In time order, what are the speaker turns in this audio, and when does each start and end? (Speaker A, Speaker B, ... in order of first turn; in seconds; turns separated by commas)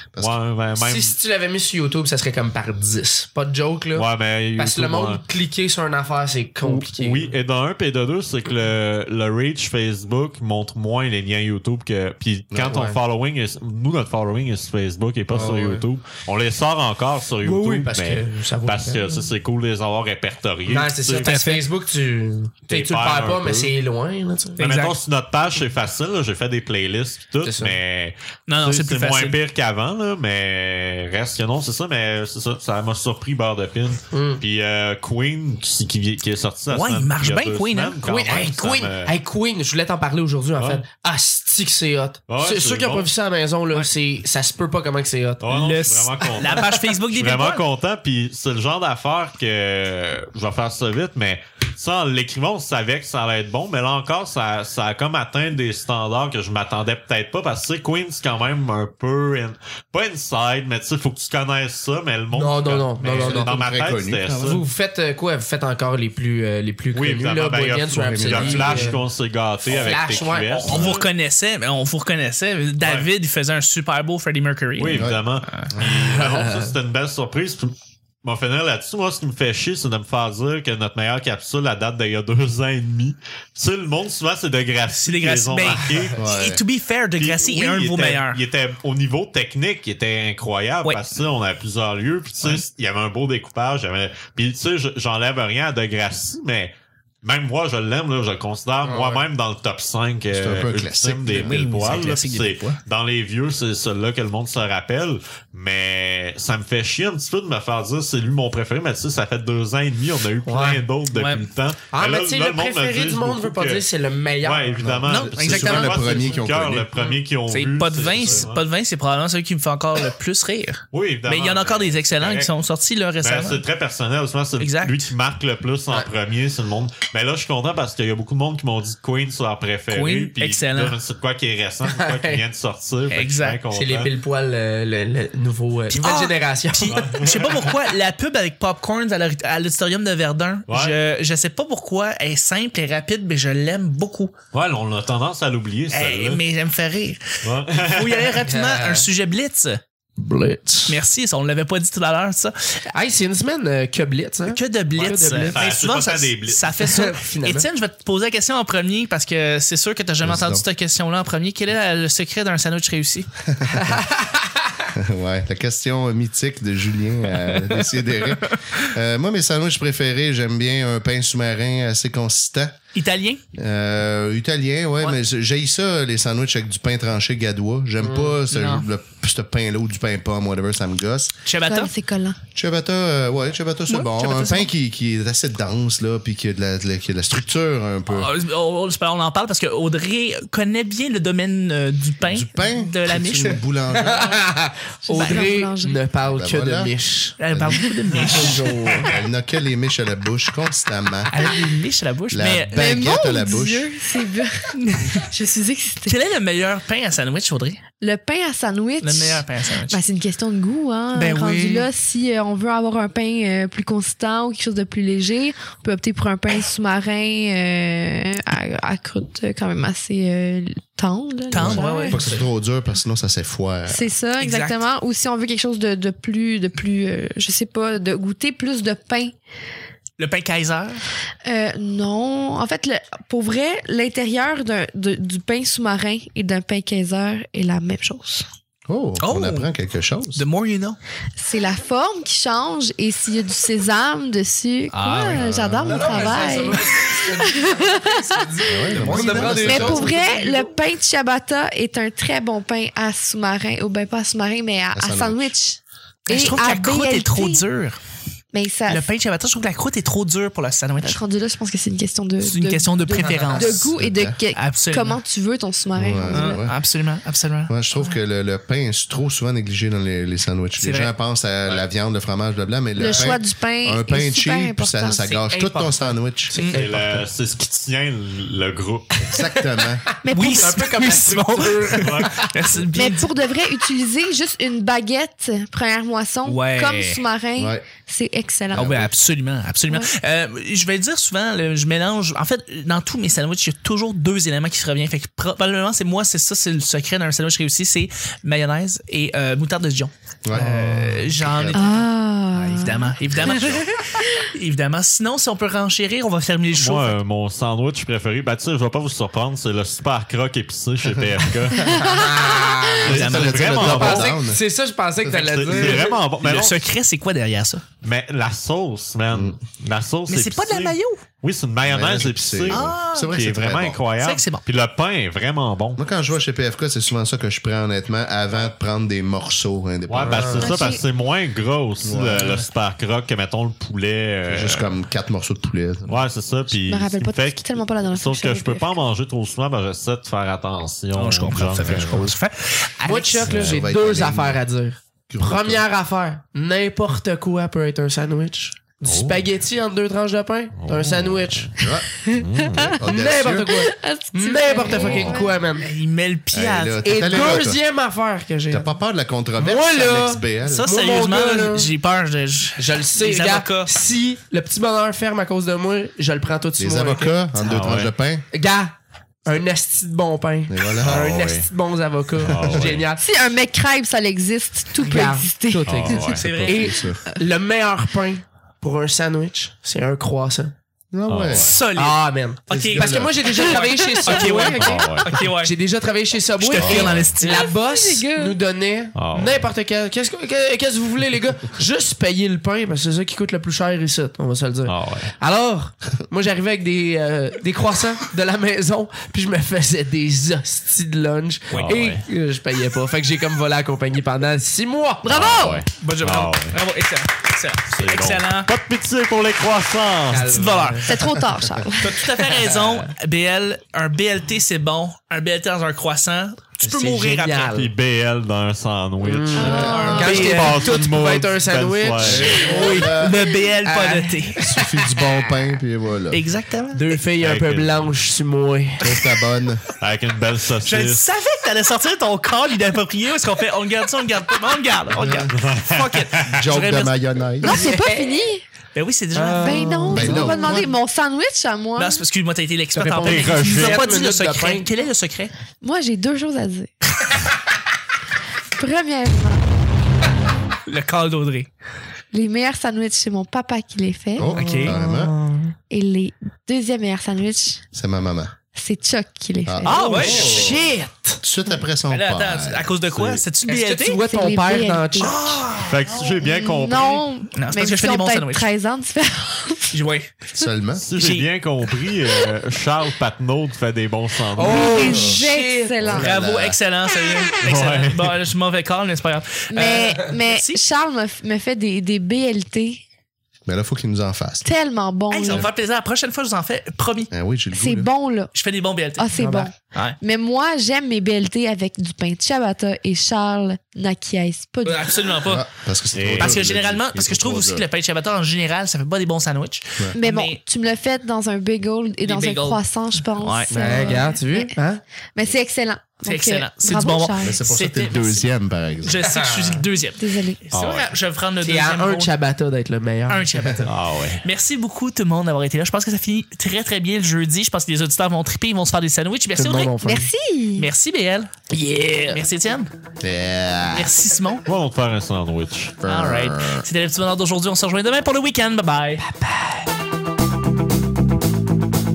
Speaker A: 0.2-1.1, Speaker B: 0.8-7.3, Speaker A: 3.9-5.2, Speaker A: 6.6-21.4, Speaker B: 12.6-13.0, Speaker B: 15.3-15.8, Speaker B: 17.4-19.1, Speaker B: 20.7-24.6, Speaker C: 21.2-21.6, Speaker A: 22.7-23.7, Speaker C: 24.6-24.9, Speaker A: 24.6-39.1, Speaker B: 27.4-27.8, Speaker C: 28.5-29.4, Speaker B: 34.1-34.4, Speaker C: 36.7-38.0, Speaker B: 38.0-45.4, Speaker A: 40.6-40.8, Speaker A: 42.3-43.1, Speaker A: 45.4-64.6, Speaker C: 45.5-47.6, Speaker B: 62.3-63.6, Speaker D: 63.1-64.6, Speaker B: 64.4-69.0, Speaker A: 66.9-71.1, Speaker D: 68.0-69.0, Speaker B: 69.6-70.9, Speaker C: 70.6-75.7, Speaker A: 72.8-73.1, Speaker A: 74.8-86.2, Speaker D: 74.9-75.2, Speaker B: 75.8-76.7, Speaker C: 85.0-88.4, Speaker D: 86.2-86.6, Speaker A: 87.2-96.7, Speaker A: 97.2-113.8, Speaker B: 98.8-99.3, Speaker D: 100.3-101.6, Speaker C: 101.3-102.8, Speaker B: 110.5-110.8, Speaker C: 111.1-111.5, Speaker B: 111.9-114.8, Speaker A: 114.4-118.6, Speaker D: 114.8-116.9, Speaker C: 115.1-116.1, Speaker B: 116.9-117.2, Speaker C: 117.5-123.6, Speaker A: 120.9-122.5, Speaker A: 123.2-134.1, Speaker C: 124.6-125.0, Speaker C: 129.9-131.0, Speaker B: 131.9-132.4, Speaker C: 133.1-133.6, Speaker B: 133.7-137.2, Speaker C: 135.9-144.3, Speaker A: 136.9-137.7, Speaker A: 140.7-140.9, Speaker A: 144.5-146.4, Speaker C: 145.9-149.8, Speaker A: 147.4-148.4, Speaker B: 148.4-149.1, Speaker D: 150.3-150.7, Speaker B: 150.3-150.9, Speaker C: 150.9-152.5, Speaker B: 152.9-155.6, Speaker C: 154.5-163.3, Speaker A: 155.0-156.7, Speaker B: 156.8-157.7, Speaker D: 160.2-160.6, Speaker D: 163.5-164.0, Speaker B: 163.8-164.5, Speaker D: 164.9-172.8, Speaker C: 172.9-173.4, Speaker D: 173.6-181.3, Speaker B: 178.0-178.4, Speaker C: 178.5-178.8, Speaker C: 181.4-181.9, Speaker E: 181.6-182.4, Speaker D: 182.6-188.3, Speaker C: 183.9-184.7, Speaker C: 188.1-193.6, Speaker D: 192.3-194.4, Speaker B: 193.9-197.3, Speaker E: 195.1-196.0, Speaker C: 195.1-195.5, Speaker D: 196.2-196.9, Speaker C: 197.4-199.1, Speaker D: 197.5-197.9, Speaker B: 198.1-199.1, Speaker D: 199.1-201.4, Speaker C: 201.3-203.1, Speaker D: 202.3-203.9, Speaker E: 202.7-206.2, Speaker C: 204.7-205.3, Speaker C: 206.1-207.8, Speaker E: 208.0-222.2, Speaker C: 209.0-210.0, Speaker C: 211.1-211.9, Speaker C: 221.5-222.2, Speaker D: 221.6-224.1, Speaker B: 222.1-222.4, Speaker E: 223.9-229.3, Speaker C: 224.4-224.8, Speaker C: 230.2-231.0, Speaker E: 231.4-238.4, Speaker D: 238.9-240.4, Speaker C: 239.2-239.7, Speaker C: 240.3-241.0, Speaker E: 241.4-257.6, Speaker C: 244.9-245.5, Speaker D: 245.4-246.4, Speaker B: 245.8-250.8, Speaker D: 248.7-250.1, Speaker D: 254.9-255.5, Speaker C: 256.3-258.0, Speaker E: 258.5-259.1, Speaker C: 258.9-261.2, Speaker E: 261.0-266.6, Speaker C: 262.4-263.9, Speaker B: 263.1-263.9, Speaker D: 263.9-264.4, Speaker C: 264.5-265.2, Speaker D: 265.9-266.8, Speaker C: 266.3-268.2, Speaker D: 267.7-276.5, Speaker C: 270.8-271.1, Speaker E: 273.0-275.4, Speaker B: 273.1-273.4, Speaker B: 275.3-277.2, Speaker C: 276.6-276.8, Speaker A: 276.7-279.6, Speaker D: 279.3-280.1, Speaker C: 280.3-283.3, Speaker E: 280.3-280.7, Speaker B: 280.3-282.5, Speaker A: 281.9-282.8, Speaker E: 282.9-289.1, Speaker C: 286.4-287.2, Speaker D: 287.6-287.8, Speaker C: 288.7-307.2, Speaker D: 300.4-302.0, Speaker E: 301.7-304.5, Speaker A: 303.5-303.8, Speaker A: 306.8-312.0, Speaker E: 311.8-312.4, Speaker B: 311.9-316.2, Speaker A: 313.0-314.4, Speaker C: 313.1-313.7, Speaker D: 313.1-314.6, Speaker D: 315.2-316.0, Speaker A: 315.2-316.8, Speaker C: 316.4-317.8, Speaker A: 318.0-326.0, Speaker D: 319.3-319.6, Speaker C: 320.3-321.2, Speaker D: 321.9-324.0, Speaker C: 322.7-323.3, Speaker C: 324.2-324.6, Speaker D: 326.0-330.9, Speaker A: 330.1-334.9, Speaker B: 330.2-330.8, Speaker E: 330.6-331.0, Speaker D: 332.0-332.6, Speaker D: 334.5-336.2, Speaker A: 336.1-342.2, Speaker E: 336.9-339.0, Speaker C: 341.1-343.4, Speaker D: 341.8-342.4, Speaker B: 343.0-351.7, Speaker A: 343.4-343.9, Speaker D: 343.4-344.6, Speaker D: 345.3-345.8, Speaker A: 349.1-349.4, Speaker A: 350.8-351.8, Speaker D: 351.8-352.1, Speaker E: 352.1-353.0, Speaker A: 352.3-353.0, Speaker D: 353.0-353.7, Speaker B: 353.0-355.9, Speaker E: 353.7-355.6, Speaker D: 354.9-355.4, Speaker C: 355.8-357.6, Speaker D: 356.5-357.8, Speaker B: 357.0-358.9, Speaker D: 358.7-360.9, Speaker B: 359.6-361.9, Speaker C: 360.6-363.9, Speaker B: 362.8-367.9, Speaker D: 366.8-368.4, Speaker A: 367.7-368.1, Speaker B: 368.5-368.9, Speaker B: 369.4-373.2, Speaker D: 370.7-371.4, Speaker A: 371.0-371.7, Speaker A: 372.4-373.1, Speaker D: 372.5-372.9, Speaker E: 373.2-376.3, Speaker B: 375.0-380.7, Speaker A: 375.9-376.7, Speaker C: 376.1-376.9, Speaker D: 376.5-377.2, Speaker D: 381.1-381.7, Speaker A: 381.3-381.8, Speaker C: 381.5-385.8, Speaker B: 381.9-405.8, Speaker D: 382.7-383.5, Speaker E: 383.6-384.6, Speaker A: 384.7-385.4, Speaker C: 386.6-387.7, Speaker D: 386.8-387.1, Speaker E: 387.4-388.6, Speaker A: 389.1-389.7, Speaker A: 394.9-395.3, Speaker C: 401.7-402.0, Speaker A: 401.7-402.2, Speaker A: 405.2-406.8, Speaker C: 405.9-408.7, Speaker A: 407.9-410.5, Speaker B: 410.3-411.2, Speaker C: 410.5-411.1, Speaker E: 411.1-412.5, Speaker C: 412.0-417.7, Speaker B: 412.6-413.1, Speaker B: 416.8-417.9, Speaker A: 417.7-422.6, Speaker B: 419.2-425.5, Speaker E: 419.6-420.6, Speaker C: 419.6-420.9, Speaker D: 422.2-423.4, Speaker C: 422.5-424.6, Speaker D: 424.6-426.4, Speaker C: 426.3-427.1, Speaker B: 426.9-429.4, Speaker A: 427.4-428.1, Speaker D: 429.0-429.8, Speaker A: 430.0-431.2, Speaker C: 430.8-437.1, Speaker D: 435.1-435.5, Speaker A: 435.5-436.6, Speaker D: 436.5-437.8, Speaker E: 437.6-438.6, Speaker B: 437.6-438.4, Speaker C: 438.9-440.6, Speaker B: 439.3-440.7, Speaker E: 439.6-442.2, Speaker D: 440.1-440.9, Speaker C: 441.9-445.5, Speaker B: 442.9-444.9, Speaker A: 443.2-444.1, Speaker E: 445.8-446.9, Speaker E: 448.8-449.6, Speaker C: 450.9-451.7, Speaker E: 452.3-454.5, Speaker D: 454.4-455.3, Speaker C: 454.5-454.9, Speaker B: 454.5-455.8, Speaker E: 455.9-457.9, Speaker D: 457.9-458.6, Speaker E: 458.7-460.7, Speaker D: 459.6-462.9, Speaker C: 459.8-460.5, Speaker B: 460.0-461.4, Speaker C: 462.1-464.2, Speaker A: 463.1-463.4, Speaker B: 463.6-465.6, Speaker E: 464.2-465.6, Speaker C: 465.2-466.2, Speaker A: 465.9-467.2, Speaker E: 466.4-469.9, Speaker C: 467.5-468.7, Speaker C: 469.9-470.4, Speaker D: 470.5-471.0, Speaker A: 471.0-475.1, Speaker C: 471.1-471.5, Speaker B: 474.6-476.2, Speaker E: 474.6-476.3, Speaker D: 476.0-476.8, Speaker C: 476.1-480.8, Speaker A: 477.6-478.4, Speaker E: 479.7-483.0, Speaker B: 479.8-480.3, Speaker D: 483.6-484.6, Speaker E: 484.6-485.7, Speaker C: 485.3-487.3, Speaker D: 487.3-488.1, Speaker E: 487.7-488.5, Speaker C: 488.5-489.3, Speaker E: 489.2-495.2, Speaker B: 489.4-489.7, Speaker C: 489.9-490.2, Speaker C: 494.9-495.7, Speaker D: 495.4-497.8, Speaker A: 496.1-496.7, Speaker C: 496.3-500.6, Speaker E: 500.1-504.7, Speaker C: 502.2-502.8, Speaker C: 503.4-504.2, Speaker B: 503.7-505.0, Speaker E: 505.4-507.6, Speaker C: 506.2-508.5, Speaker D: 507.4-509.3, Speaker C: 509.0-512.3, Speaker B: 509.2-509.8, Speaker E: 510.2-510.6, Speaker A: 510.7-511.1, Speaker B: 511.6-513.7, Speaker C: 513.3-519.9, Speaker A: 513.9-514.4, Speaker B: 519.5-520.3, Speaker E: 520.0-520.9, Speaker C: 520.8-521.7, Speaker B: 521.7-522.4, Speaker C: 522.3-522.9, Speaker D: 523.2-524.1, Speaker C: 523.9-524.6, Speaker A: 524.6-526.0, Speaker D: 526.0-526.9, Speaker C: 526.0-529.2, Speaker B: 529.3-529.8